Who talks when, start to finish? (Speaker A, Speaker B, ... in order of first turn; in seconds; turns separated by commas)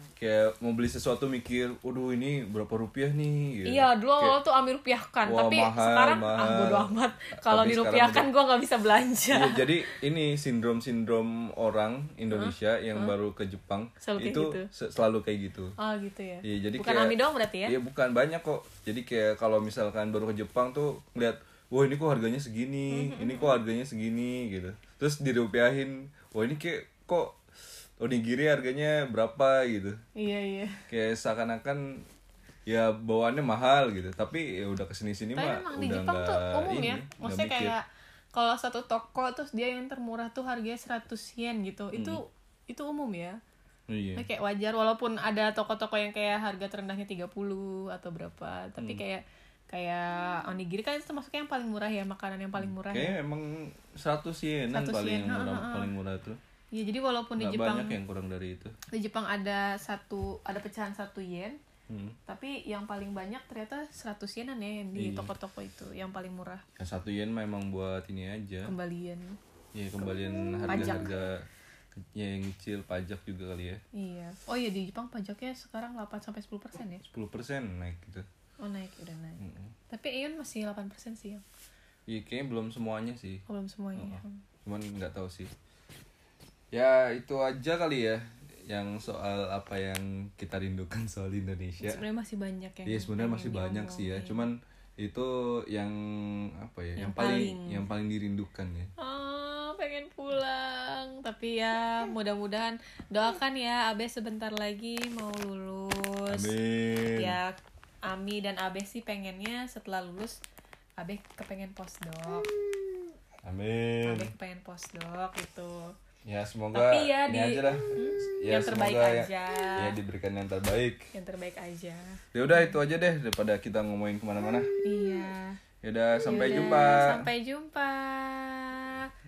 Speaker A: 0.2-4.4, Speaker B: 3.6-10.0, Speaker A: 5.3-8.3, Speaker A: 9.3-15.7, Speaker B: 12.3-13.2, Speaker B: 14.0-14.7, Speaker B: 15.8-17.8, Speaker A: 16.4-27.4, Speaker B: 22.9-23.6, Speaker A: 28.0-30.0, Speaker B: 30.2-30.8, Speaker A: 30.9-32.0, Speaker A: 32.7-37.8, Speaker B: 35.4-37.8, Speaker B: 38.4-43.4, Speaker A: 43.9-44.2, Speaker B: 44.2-53.2, Speaker A: 52.6-56.4, Speaker B: 54.7-55.9, Speaker B: 56.7-58.0, Speaker A: 57.4-58.7, Speaker B: 58.9-61.6, Speaker A: 61.9-62.2, Speaker B: 62.3-66.6, Speaker A: 65.0-65.3, Speaker A: 66.8-68.7, Speaker B: 68.7-69.4, Speaker A: 69.8-73.8, Speaker B: 70.0-71.2, Speaker B: 73.9-77.0, Speaker A: 77.0-78.3, Speaker B: 78.6-81.4, Speaker A: 79.4-79.7, Speaker A: 82.1-83.4, Speaker B: 83.5-84.4, Speaker A: 84.0-85.5, Speaker A: 86.7-92.0, Speaker B: 91.8-94.5, Speaker A: 92.9-98.9, Speaker B: 97.0-97.9, Speaker B: 99.0-106.5, Speaker A: 106.3-107.4, Speaker B: 107.2-110.4, Speaker B: 111.0-112.5, Speaker A: 113.4-114.3, Speaker B: 114.0-115.9, Speaker A: 116.2-121.1, Speaker B: 116.7-120.0, Speaker B: 121.1-122.2, Speaker A: 122.3-124.7, Speaker B: 124.8-125.6, Speaker A: 125.8-127.2, Speaker B: 126.2-129.1